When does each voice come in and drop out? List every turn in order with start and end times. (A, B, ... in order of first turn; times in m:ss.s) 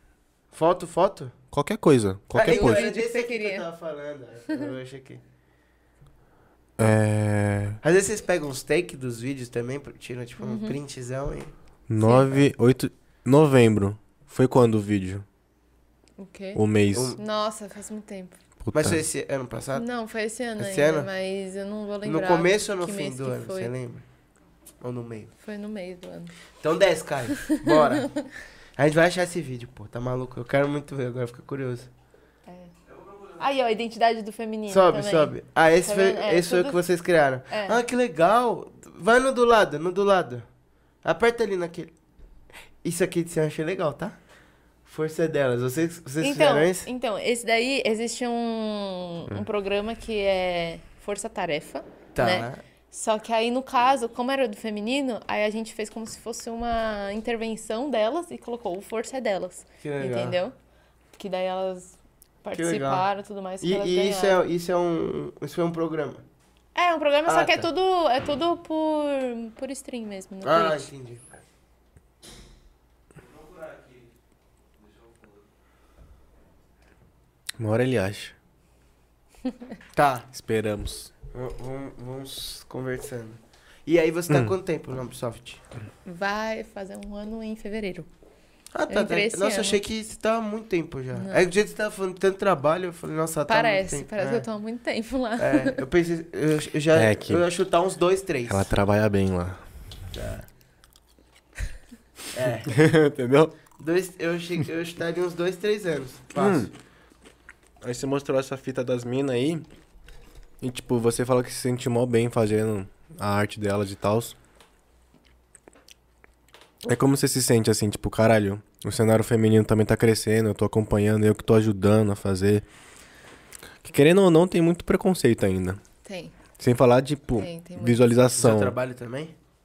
0:00.5-0:01.3 A
0:01.5-0:02.9 B
0:02.3-0:05.2 A
0:02.4-0:03.6 C
0:06.8-0:07.8 B
0:07.8-0:11.5 A
0:10.4-0:10.8 C
0:11.9-0:15.2 B
0:12.0-0:12.4 C
0:16.2-0:16.6 C
0:16.6-0:17.2 B
0:16.9-0:17.2 A
0:17.2-0:18.4 C
0:18.6-0:19.0 B
0:18.7-0:19.8 A
0:19.7-0:23.7 C
0:20.6-0:21.1 A
0:22.0-0:24.0 A
0:24.8-0:25.3 A
0:25.4-0:26.3 C
0:26.6-0:28.1 A
0:27.3-0:28.3 C
0:28.8-0:31.9 A
0:32.5-0:36.8 C
0:34.7-0:40.4 A
0:37.5-0:37.8 C
0:41.0-0:41.9 A
0:42.8-0:44.2 A
0:44.8-0:46.9 A
0:46.2-1:00.5 C
0:52.1-0:52.6 A
0:59.8-1:00.4 A
1:01.1-1:04.4 C
1:02.5-1:03.0 A
1:03.6-1:06.2 A
1:06.7-1:10.9 C
1:07.3-1:07.7 A
1:10.4-1:11.2 A
1:17.6-1:18.3 B
1:19.9-1:20.3 A
1:20.3-1:21.1 B
1:21.3-1:25.6 A
1:26.0-1:28.1 C
1:28.7-1:34.4 A
1:28.9-1:29.8 C
1:31.1-1:31.4 C
1:33.5-1:35.8 C
1:35.4-1:38.7 A
1:36.9-1:37.4 B
1:38.4-1:39.6 B
1:40.1-1:40.5 A
1:42.3-1:42.8 A
1:42.7-1:43.5 B
1:43.8-1:46.7 A
1:46.4-1:46.7 B
1:47.8-1:49.6 B
1:50.6-1:54.4 B
1:56.8-2:02.6 B
2:03.8-2:05.8 B
2:06.0-2:06.3 C
2:06.6-2:08.8 B
2:07.4-2:08.0 C
2:08.4-2:09.3 A